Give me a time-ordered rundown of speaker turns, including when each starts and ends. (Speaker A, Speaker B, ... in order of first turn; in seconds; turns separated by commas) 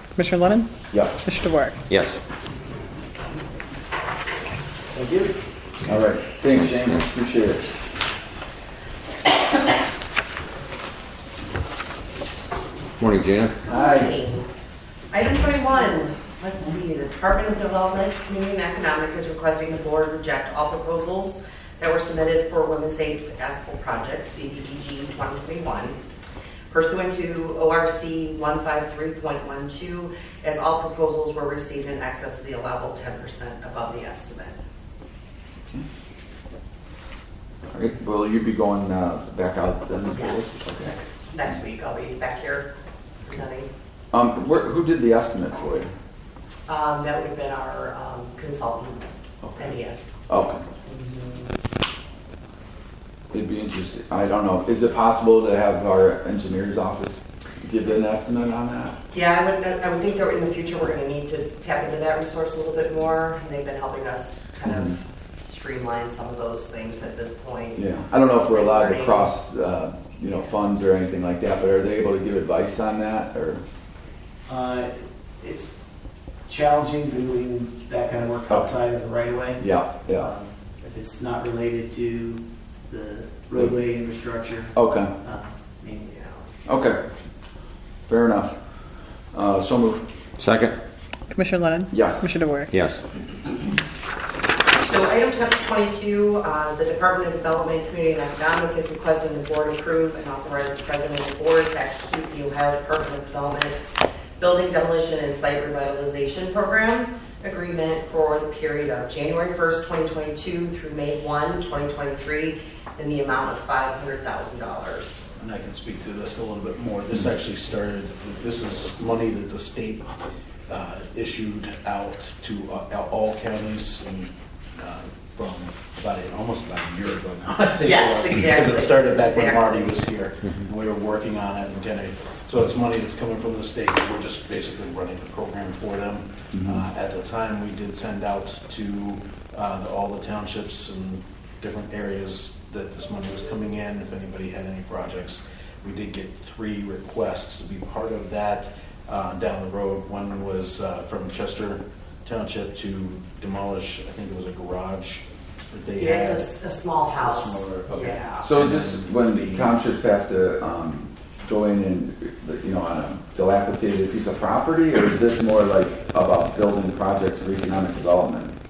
Speaker A: 0.1-0.7, Speaker B: 0.9-1.2, Speaker A: 1.2-1.8, Speaker C: 1.9-2.2, Speaker D: 4.9-5.4, Speaker B: 5.8-7.6, Speaker C: 6.5-7.1, Speaker C: 13.0-13.6, Speaker E: 13.6-14.5, Speaker B: 13.7-14.2, Speaker E: 15.1-26.0, Speaker E: 26.7-34.6, Speaker B: 37.7-40.9, Speaker E: 40.1-42.7, Speaker E: 43.2-43.7, Speaker B: 44.1-45.9, Speaker E: 46.7-49.0, Speaker B: 49.4-49.8, Speaker E: 49.6-50.1, Speaker B: 50.3-50.6, Speaker E: 50.8-51.5, Speaker B: 53.3-59.0, Speaker E: 59.1-69.3, Speaker B: 67.8-73.6, Speaker D: 74.5-75.7, Speaker D: 76.5-86.2, Speaker B: 78.5-78.8, Speaker B: 79.6-80.3, Speaker B: 84.7-85.1, Speaker E: 86.1-86.4, Speaker B: 86.7-87.0, Speaker B: 88.1-88.6, Speaker B: 89.3-90.0, Speaker C: 90.4-90.8, Speaker A: 91.3-92.7, Speaker B: 91.9-92.2, Speaker C: 92.7-93.0, Speaker E: 94.7-103.8, Speaker E: 104.4-115.3, Speaker F: 115.4-120.1, Speaker F: 120.7-156.5, Speaker E: 127.8-130.0, Speaker B: 136.5-136.8, Speaker E: 156.0-158.5, Speaker B: 157.2-168.5, Speaker F: 157.3-159.8